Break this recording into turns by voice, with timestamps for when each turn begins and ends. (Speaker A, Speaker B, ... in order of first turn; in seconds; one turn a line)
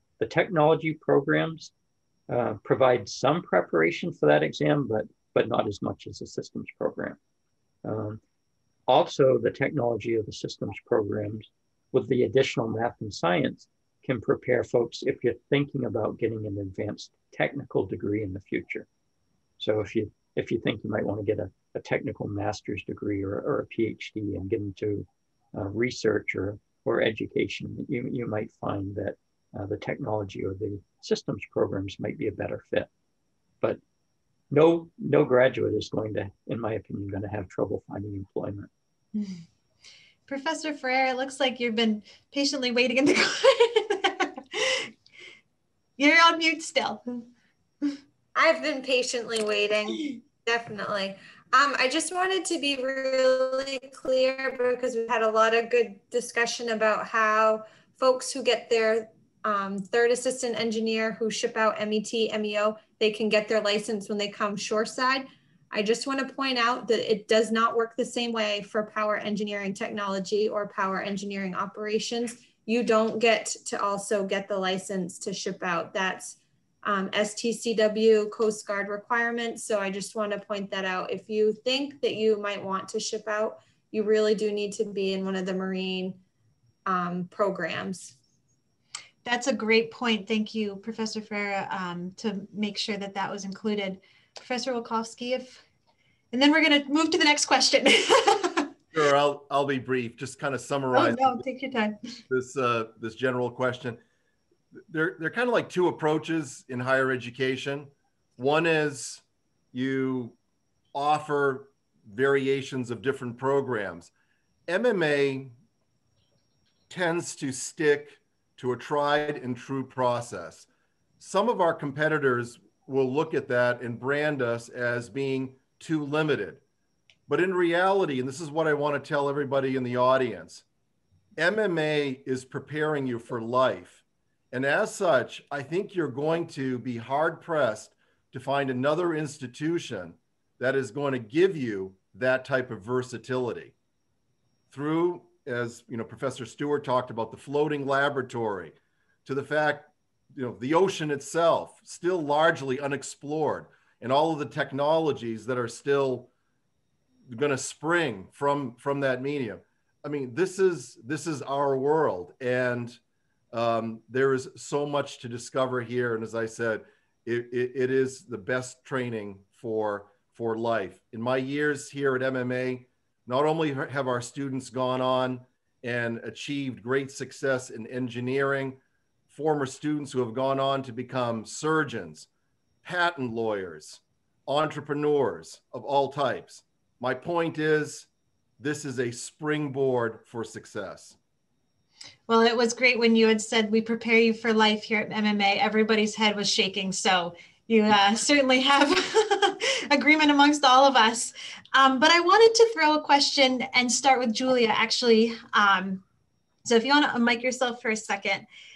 Speaker A: 0.2-1.7
Speaker A: 2.3-7.2
Speaker A: 7.8-8.2
Speaker A: 8.9-18.9
Speaker A: 19.6-32.9
Speaker A: 34.5-38.7
Speaker B: 39.1-39.4
Speaker B: 40.3-44.9
Speaker B: 46.0-47.3
Speaker C: 48.3-86.2
Speaker C: 86.8-88.2
Speaker B: 89.2-95.6
Speaker B: 96.3-98.7
Speaker D: 98.9-101.4
Speaker B: 100.9-102.0
Speaker D: 102.3-104.0
Speaker D: 104.9-110.4
Speaker D: 110.9-114.1
Speaker D: 114.7-115.5
Speaker D: 116.9-120.7
Speaker D: 121.2-126.6
Speaker D: 127.3-130.6
Speaker D: 131.4-143.7
Speaker D: 144.7-156.3
Speaker D: 157.3-163.0
Speaker D: 163.5-182.3
Speaker D: 182.8-188.1
Speaker D: 188.6-191.2
Speaker B: 192.3-206.0
Speaker B: 206.6-208.4